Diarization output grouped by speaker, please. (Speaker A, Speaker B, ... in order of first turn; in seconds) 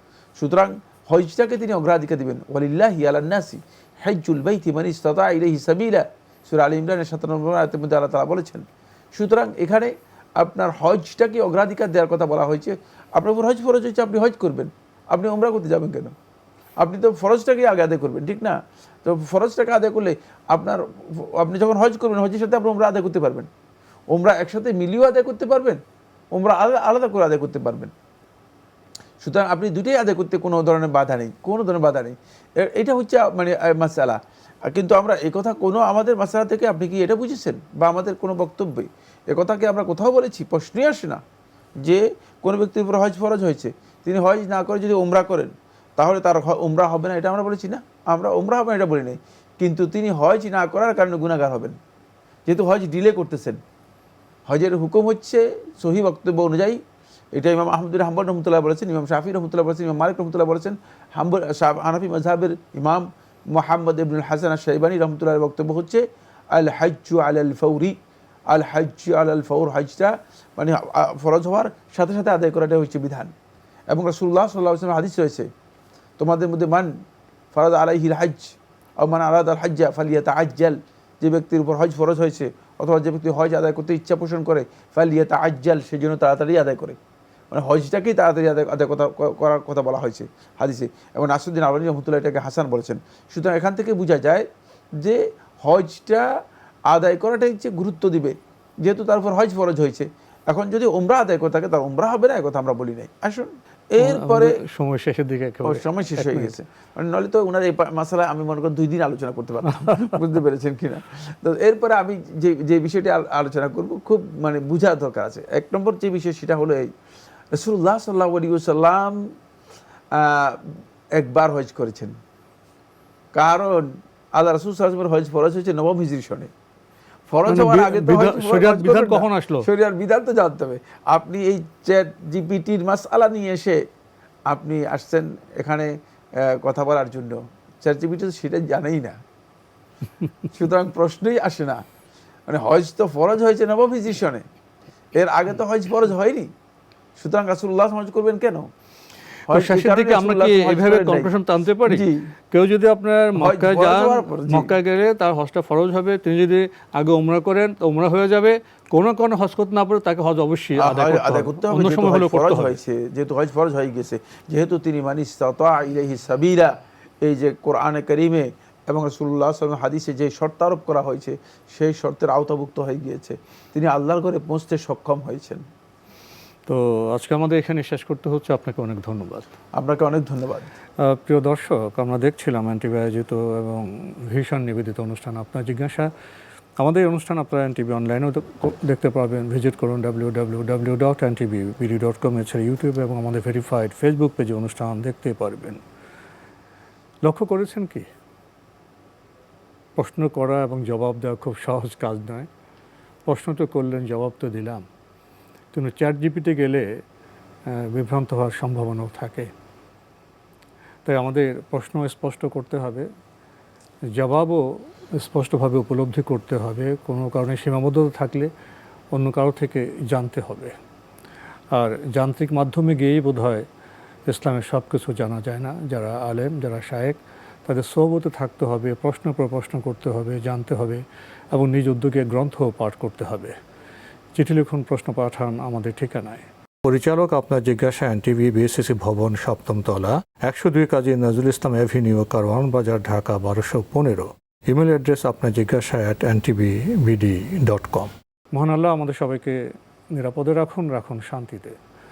Speaker A: 0.4-16.1, 16.8-23.5, 24.1-25.8, 26.3-27.9, 29.2-41.2, 41.8-51.8, 52.5-53.6, 54.5-56.8, 57.4-68.0, 68.5-73.3, 73.9-75.5, 76.2-76.9, 77.5-87.0, 87.5-96.3, 96.9-104.6, 105.6-116.9, 117.5-119.2, 120.1-122.2, 123.3-126.5, 127.3-133.8, 134.5-139.2, 140.5-141.8, 142.5-144.4, 145.2-146.5, 147.2-148.7, 149.5-151.3, 151.8-152.3, 153.3-154.7, 160.8-175.6, 179.8-180.7
Speaker B: 104.0-106.5, 109.7-110.2, 127.5-129.7, 149.5-162.8, 176.7-179.5, 181.0-186.1, 186.8-195.8, 197.2-198.1, 200.0-202.5, 203.3-204.8, 205.7-206.9, 207.7-209.5, 211.1-213.1, 214.2-218.5, 219.1-220.7, 221.7-223.7, 224.3-233.6, 234.4-251.8